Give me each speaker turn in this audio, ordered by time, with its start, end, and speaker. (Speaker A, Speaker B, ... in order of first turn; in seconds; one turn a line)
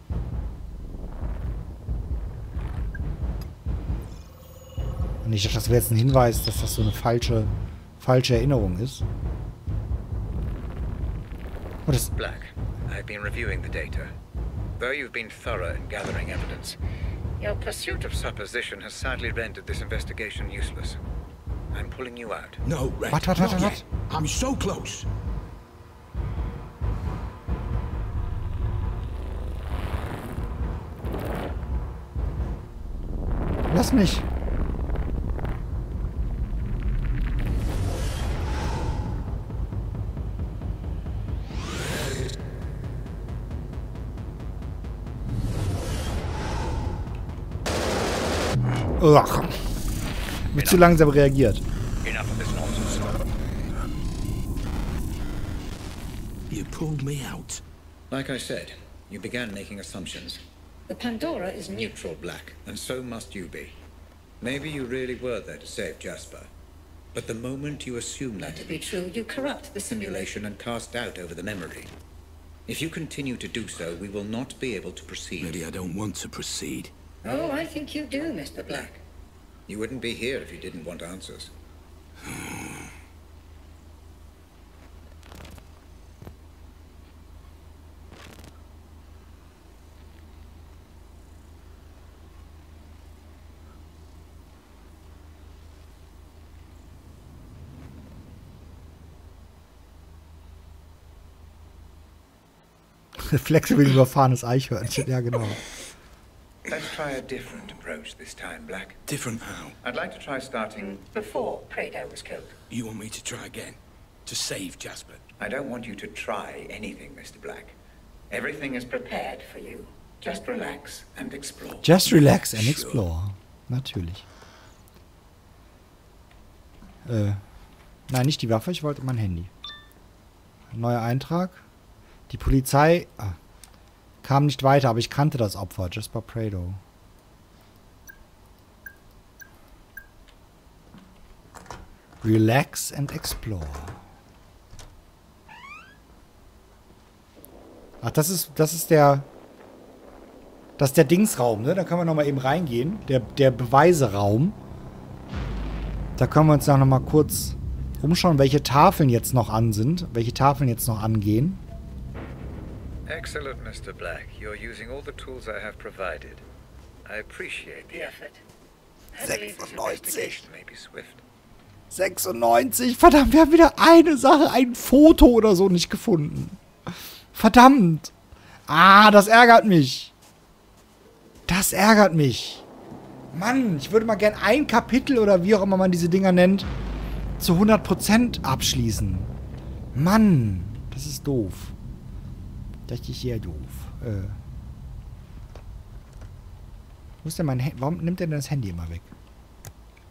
Speaker A: 5.2-9.0
Speaker A: 11.8-12.1
Speaker B: 12.1-14.1
Speaker B: 14.8-16.8
Speaker B: 17.4-21.0
Speaker C: 17.5-18.0
Speaker B: 21.7-22.6
Speaker D: 22.6-25.1
Speaker A: 23.1-23.9
Speaker A: 33.7-34.3
Speaker A: 49.0-49.6
Speaker A: 50.5-51.6
Speaker B: 50.5-50.9
Speaker B: 52.0-53.2
Speaker D: 56.5-57.6
Speaker B: 58.1-60.4
Speaker C: 60.9-61.9
Speaker B: 61.9-63.8
Speaker B: 64.4-66.5
Speaker B: 67.1-68.8
Speaker C: 68.4-70.3
Speaker B: 69.9-71.9
Speaker B: 72.7-75.7
Speaker D: 75.4-76.9
Speaker C: 77.2-79.0
Speaker B: 79.7-81.5
Speaker D: 82.2-82.9
Speaker A: 103.2-105.7
Speaker B: 106.7-109.0
Speaker D: 109.1-109.8
Speaker B: 109.8-111.1
Speaker C: 111.1-112.5
Speaker D: 112.7-115.2
Speaker B: 115.4-117.8
Speaker B: 118.3-121.9
Speaker A: 121.8-124.2
Speaker D: 122.5-123.0
Speaker A: 127.0-127.4
Speaker A: 128.1-129.5
Speaker A: 130.7-131.6
Speaker A: 132.3-133.4
Speaker A: 134.2-136.8
Speaker A: 142.2-144.0
Speaker A: 148.0-149.3
Speaker A: 150.8-154.6
Speaker A: 156.2-161.6
Speaker B: 163.1-166.4
Speaker B: 167.1-168.1
Speaker C: 167.9-168.4
Speaker C: 169.1-169.8
Speaker A: 169.2-170.4
Speaker B: 169.6-171.2
Speaker A: 171.9-176.6
Speaker A: 177.3-178.1
Speaker A: 178.7-180.1
Speaker A: 181.5-182.6
Speaker A: 183.3-186.7
Speaker A: 187.4-189.3
Speaker A: 189.9-191.7
Speaker A: 192.9-194.4
Speaker A: 197.2-199.1